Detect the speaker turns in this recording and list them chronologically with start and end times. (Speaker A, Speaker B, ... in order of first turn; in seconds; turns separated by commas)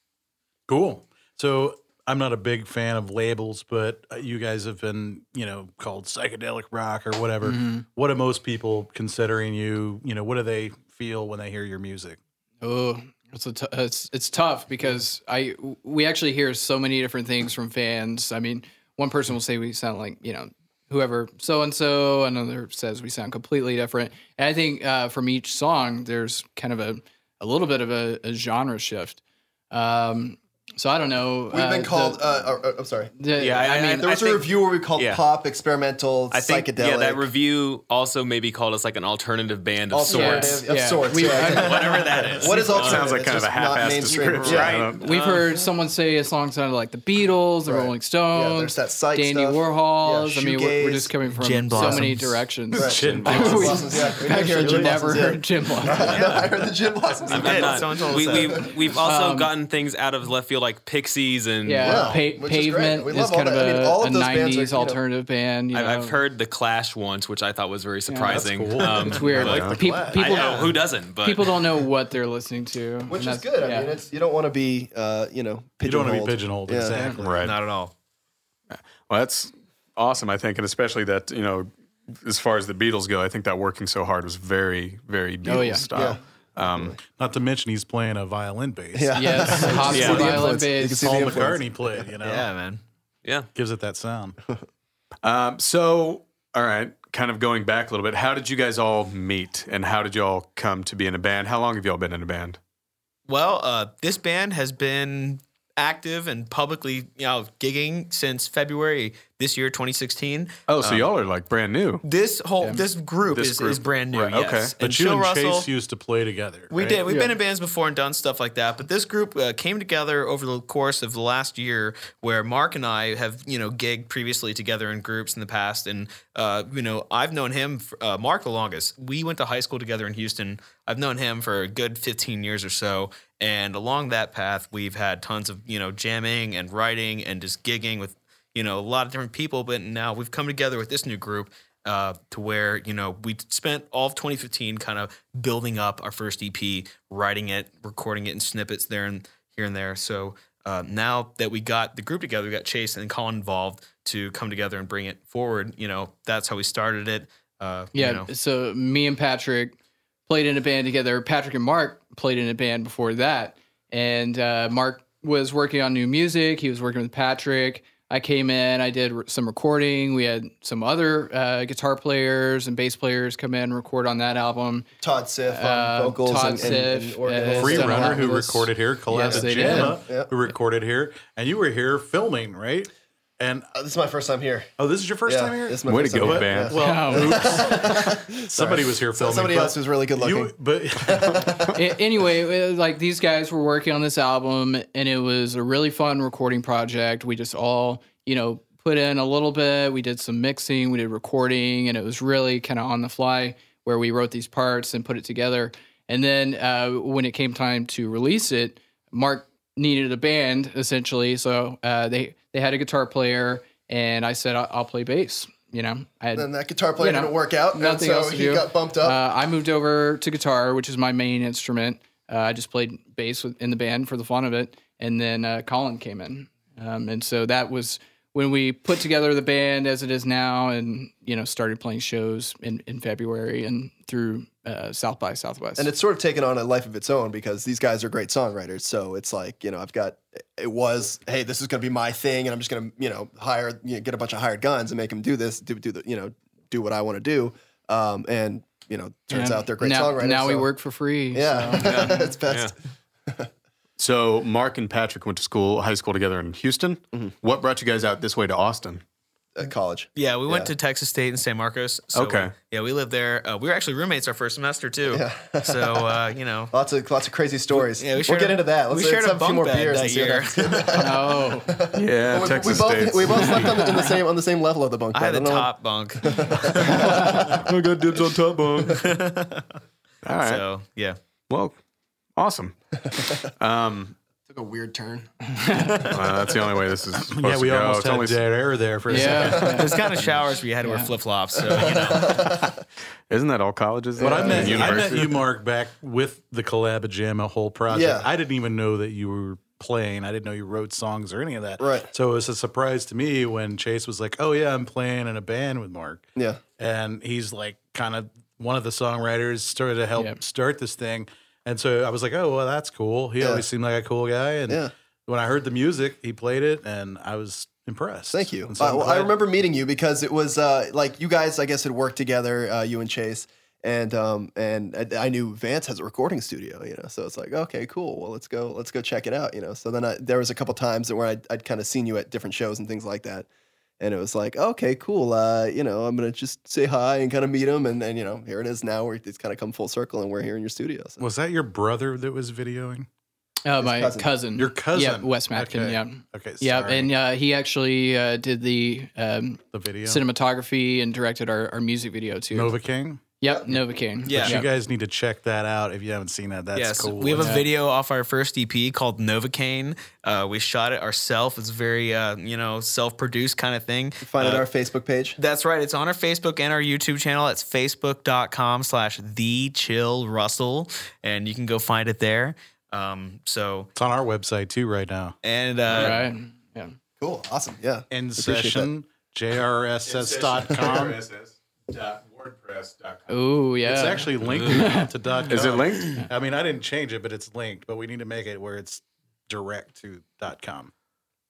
Speaker A: 0.7-12.2, Speaker B: 7.4-7.8, Speaker B: 12.6-29.2, Speaker B: 29.7-32.2, Speaker C: 31.5-33.1, Speaker B: 33.2-34.1, Speaker D: 33.4-35.2, Speaker C: 34.0-37.3, Speaker D: 36.3-40.6, Speaker C: 39.9-44.9, Speaker B: 40.1-41.9, Speaker E: 41.4-42.9, Speaker D: 41.6-43.1, Speaker F: 42.7-45.1, Speaker D: 44.2-45.5, Speaker B: 45.0-56.2, Speaker C: 47.7-51.1, Speaker E: 51.3-52.4, Speaker C: 51.8-52.1, Speaker F: 52.7-53.8, Speaker C: 52.8-58.7, Speaker A: 53.0-55.2, Speaker D: 56.0-56.4, Speaker E: 56.1-56.4, Speaker D: 57.3-62.2, Speaker E: 57.3-58.7, Speaker B: 59.0-59.5, Speaker B: 61.6-66.2, Speaker C: 61.8-65.0, Speaker D: 65.7-71.6, Speaker B: 68.1-68.5, Speaker A: 68.2-69.5, Speaker B: 69.0-73.9, Speaker F: 69.4-69.8, Speaker C: 69.5-70.5, Speaker C: 73.1-77.0, Speaker A: 75.8-77.5, Speaker F: 77.2-77.5, Speaker E: 77.4-77.9, Speaker F: 78.7-87.0, Speaker B: 85.4-85.9, Speaker C: 85.9-87.0, Speaker A: 87.0-92.5, Speaker C: 88.9-92.1, Speaker B: 89.2-91.1, Speaker D: 89.9-90.4, Speaker E: 92.2-92.8, Speaker D: 93.2-93.5, Speaker A: 93.5-94.4, Speaker F: 95.2-102.6, Speaker E: 103.3-111.1, Speaker F: 110.7-112.0, Speaker E: 112.0-115.7, Speaker F: 113.3-114.7, Speaker A: 114.8-117.0, Speaker E: 116.7-158.3, Speaker B: 157.9-159.8, Speaker B: 160.3-174.9, Speaker C: 175.0-178.6, Speaker B: 175.5-180.0, Speaker A: 177.6-183.7, Speaker C: 179.2-180.3, Speaker C: 183.7-184.7, Speaker A: 184.8-191.7, Speaker C: 185.3-191.6, Speaker F: 185.9-187.1, Speaker B: 186.7-187.6, Speaker B: 191.8-235.9, Speaker C: 216.3-219.2, Speaker C: 235.8-250.7, Speaker B: 249.3-252.2, Speaker C: 251.3-252.8, Speaker D: 251.8-252.7, Speaker F: 254.0-259.0, Speaker C: 259.6-260.7, Speaker E: 260.2-266.7, Speaker F: 262.1-262.5, Speaker C: 265.1-266.1, Speaker C: 266.7-275.7, Speaker E: 267.7-271.1, Speaker B: 271.0-271.7, Speaker F: 271.9-273.7, Speaker B: 273.4-274.1, Speaker E: 275.1-279.7, Speaker C: 276.2-277.6, Speaker F: 277.1-279.0, Speaker F: 280.2-280.6, Speaker E: 280.4-281.2, Speaker F: 281.5-281.8, Speaker F: 282.4-284.2, Speaker C: 284.5-286.2, Speaker F: 286.1-288.5, Speaker A: 287.3-289.9, Speaker B: 289.1-289.9, Speaker C: 289.4-290.0, Speaker E: 289.7-292.5, Speaker B: 290.8-291.1, Speaker C: 291.6-292.8, Speaker F: 293.3-295.4, Speaker C: 294.2-295.1, Speaker A: 294.2-319.3, Speaker C: 297.9-298.3, Speaker C: 301.8-302.1, Speaker C: 306.4-306.6, Speaker C: 313.4-313.6, Speaker C: 318.3-333.5, Speaker C: 334.0-341.2, Speaker A: 341.2-343.1, Speaker B: 343.6-352.7, Speaker C: 343.8-344.3, Speaker A: 344.6-347.1, Speaker A: 349.7-350.2, Speaker A: 352.5-353.8, Speaker B: 353.4-354.7, Speaker E: 354.3-354.6, Speaker A: 354.3-357.6, Speaker E: 356.7-364.6, Speaker B: 357.4-357.6, Speaker C: 364.2-365.4, Speaker E: 365.4-373.9, Speaker A: 373.9-375.4, Speaker E: 375.4-376.2, Speaker B: 375.9-377.0, Speaker C: 377.2-378.9, Speaker A: 378.1-381.2, Speaker F: 380.1-383.4, Speaker B: 383.3-385.1, Speaker A: 383.8-390.9, Speaker D: 384.4-384.9, Speaker F: 385.5-386.3